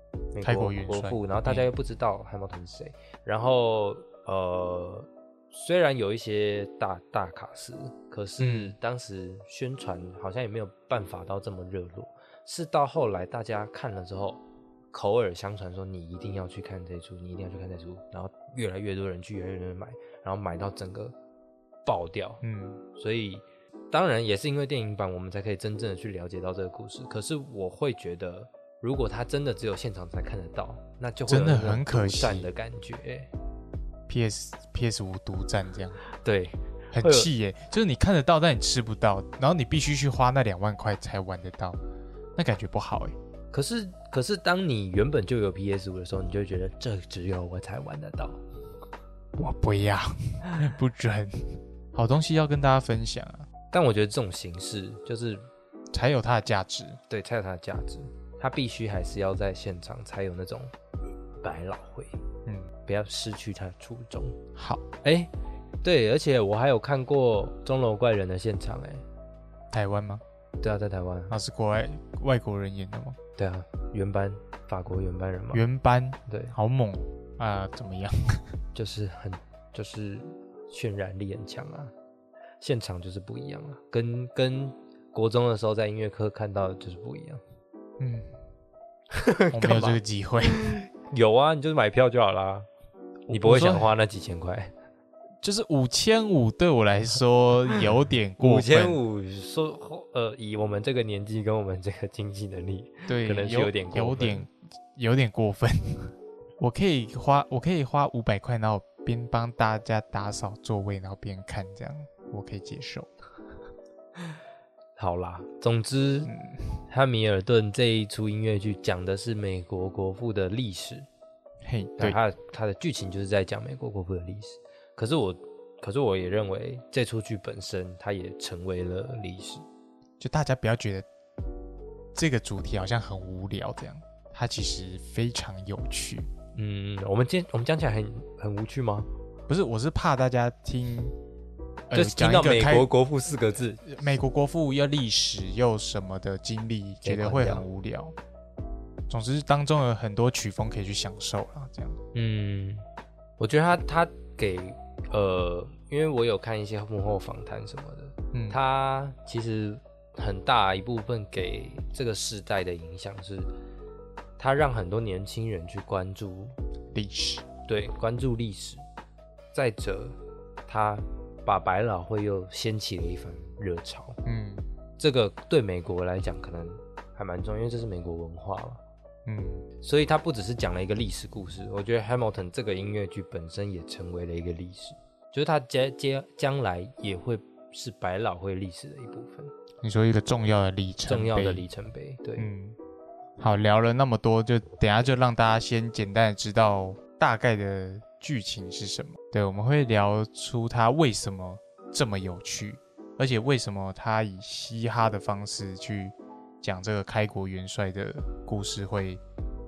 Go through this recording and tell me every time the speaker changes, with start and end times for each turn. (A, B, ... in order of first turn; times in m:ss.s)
0:00.3-0:14.4 A
0:00.4-0:01.7 B
0:08.4-0:08.8 B
0:14.9-0:21.1 A
0:21.8-0:22.4 A
0:22.4-0:22.8 B
0:23.0-0:33.3 A
0:31.3-0:32.5 B
0:34.1-0:36.0 B
0:36.1-0:37.3 A
0:36.9-0:41.8 B
0:42.4-0:43.2 B
0:43.5-0:48.4 A
0:49.3-0:53.5 B
0:53.7-0:55.5 A
0:55.9-0:57.0 B
0:57.1-1:00.7 A
1:01.4-1:02.2 A
1:02.8-1:04.4 A
1:04.6-1:04.8 B
1:05.0-1:05.3 A
1:05.8-1:09.0 A
1:09.7-1:10.2 B
1:10.6-1:11.3 A
1:11.3-1:13.2 B
1:13.4-1:15.6 A
1:15.5-1:18.4 B
1:16.3-1:16.5 A
1:18.8-1:21.9 A
1:22.6-1:27.4 A
1:28.0-1:28.3 B
1:29.1-1:30.0 A
1:29.5-1:30.8 B
1:30.5-1:32.7 A
1:33.3-1:34.7 A
1:33.3-1:33.9 B
1:35.4-1:39.0 B
1:38.4-1:44.5 A
1:43.1-1:53.1 B
1:55.0-1:56.3 A
1:56.3-1:56.8 B
1:56.9-2:01.1 A
2:01.6-2:02.2 B
2:02.0-2:09.6 A
2:10.2-2:11.0 B
2:12.1-2:16.3 B
2:16.6-2:19.1 A
2:19.5-2:21.1 B
2:21.9-2:22.9 B
2:21.9-2:23.9 A
2:23.8-2:28.1 B
2:27.0-2:27.6 A
2:29.1-2:32.0 B
2:32.1-2:32.8 A
2:33.4-2:43.5 A
2:38.3-2:38.6 B
2:44.4-2:46.6 A
2:46.9-2:47.4 B
2:47.6-2:48.8 A
2:49.5-2:54.2 A
2:54.2-2:54.7 B
2:55.0-2:58.8 A
2:59.2-2:59.7 B
2:59.8-3:09.5 A
3:09.8-3:11.6 B
3:11.0-3:12.5 A
3:12.4-3:12.8 B
3:13.4-3:29.2 B